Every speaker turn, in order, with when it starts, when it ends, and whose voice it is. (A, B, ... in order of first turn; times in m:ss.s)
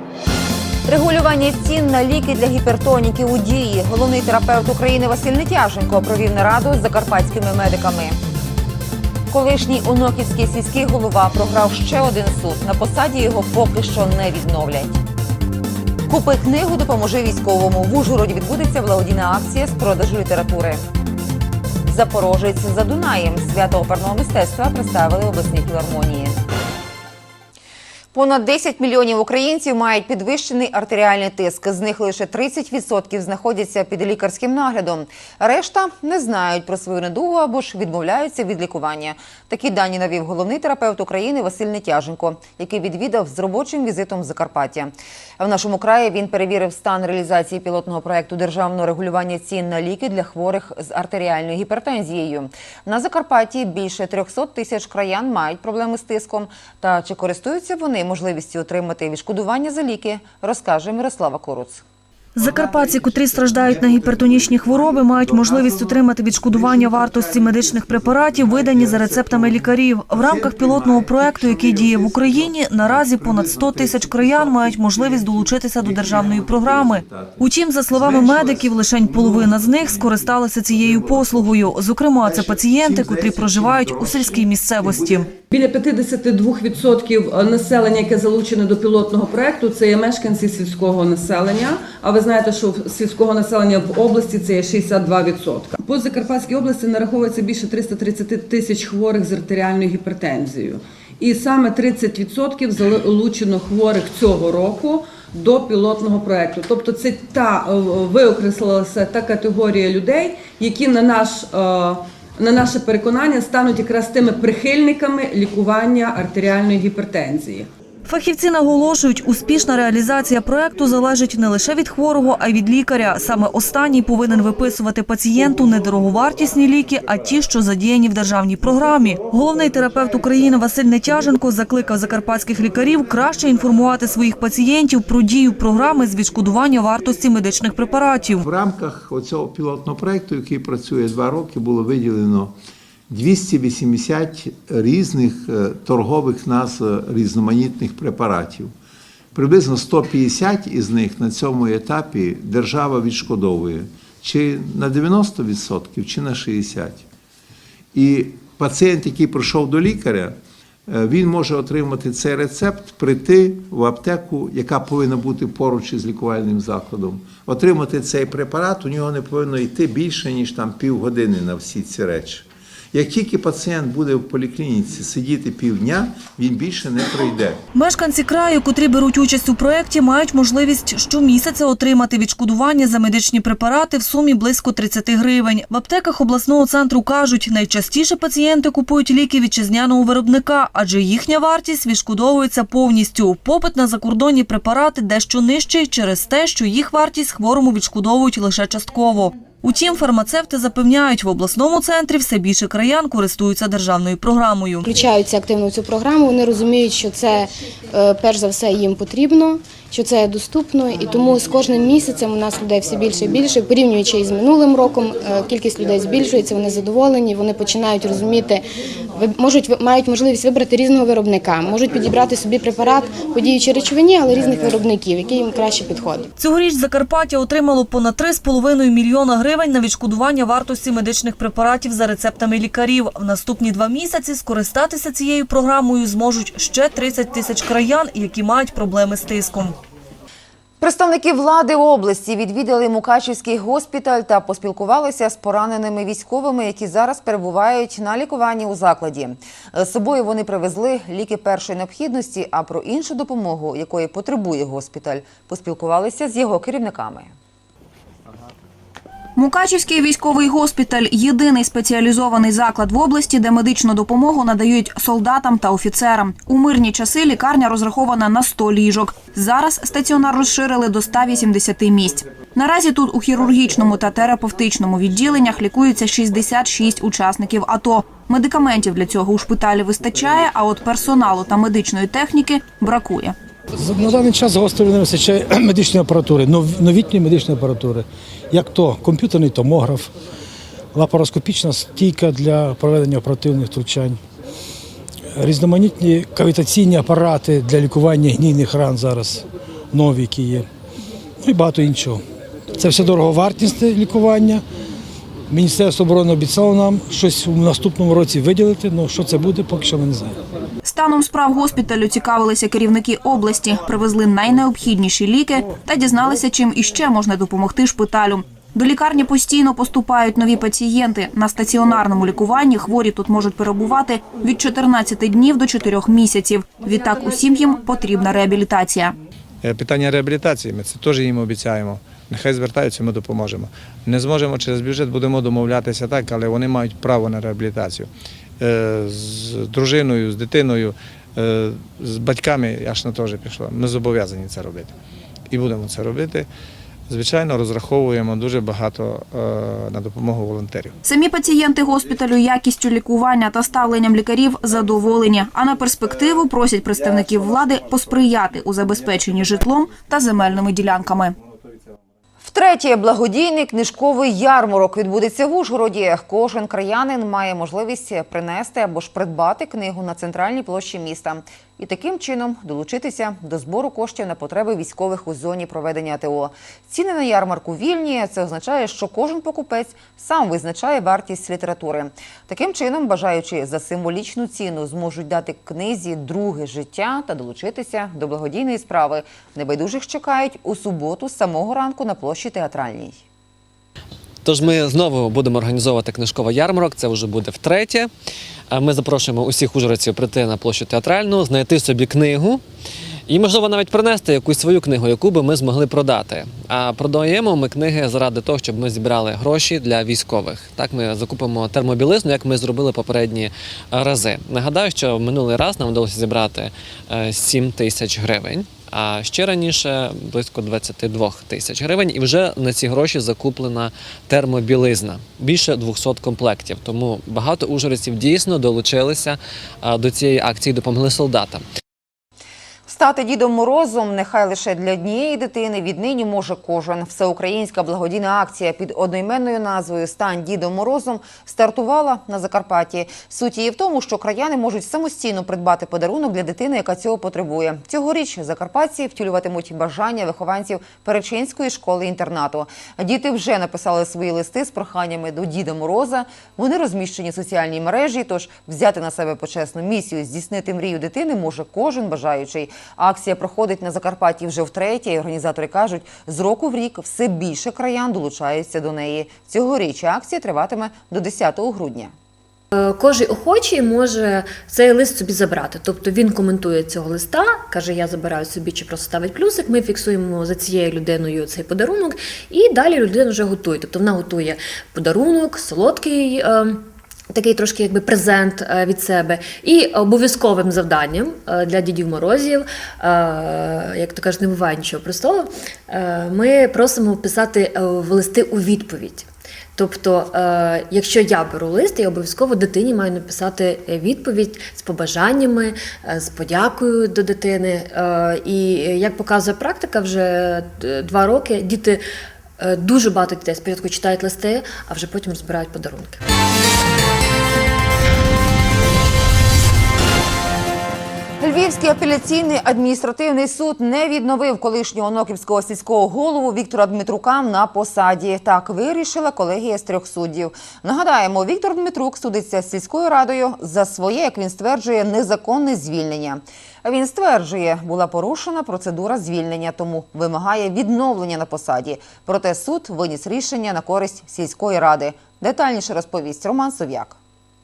0:00.9-0:08.2 A
0:09.3-0:15.0 A
0:16.1-0:20.8 A
0:21.9-0:26.4 A
0:28.1-1:01.8 A
1:02.4-1:25.3 B
1:03.9-1:06.0 C
1:06.7-1:21.7 C
1:22.2-1:25.3 C
1:25.5-1:57.7 D
1:58.1-2:18.4 B
2:18.4-2:22.5 C
2:23.1-2:28.7 C
2:29.3-2:37.0 C
2:37.9-2:40.4 C
2:40.9-2:57.6 C
2:57.7-3:24.9 B
3:24.8-3:38.6 E
3:39.2-3:46.3 E
3:46.4-3:59.8 B
4:00.8-4:17.3 A
4:19.4-4:43.3 F
4:43.8-4:50.1 G
4:50.9-4:54.2 G
4:55.4-5:00.7 G
5:01.4-5:02.2 G
5:02.8-5:04.6 G
5:05.5-5:10.4 G
5:10.8-5:29.2 F
5:29.6-5:38.1 H
5:38.6-5:44.9 H
5:45.5-5:46.5 H
5:47.1-5:51.0 H
5:51.0-6:01.4 F
6:02.4-6:33.2 A
6:34.4-6:38.1 I
6:38.7-6:42.6 I
6:43.3-7:11.6 I
7:12.9-7:52.1 A
7:52.8-7:56.1 J
7:56.7-8:06.8 J
8:07.3-8:19.3 J
8:19.8-8:29.2 J
8:29.8-8:31.2 J
8:34.3-8:36.2 J
8:41.4-9:07.2 A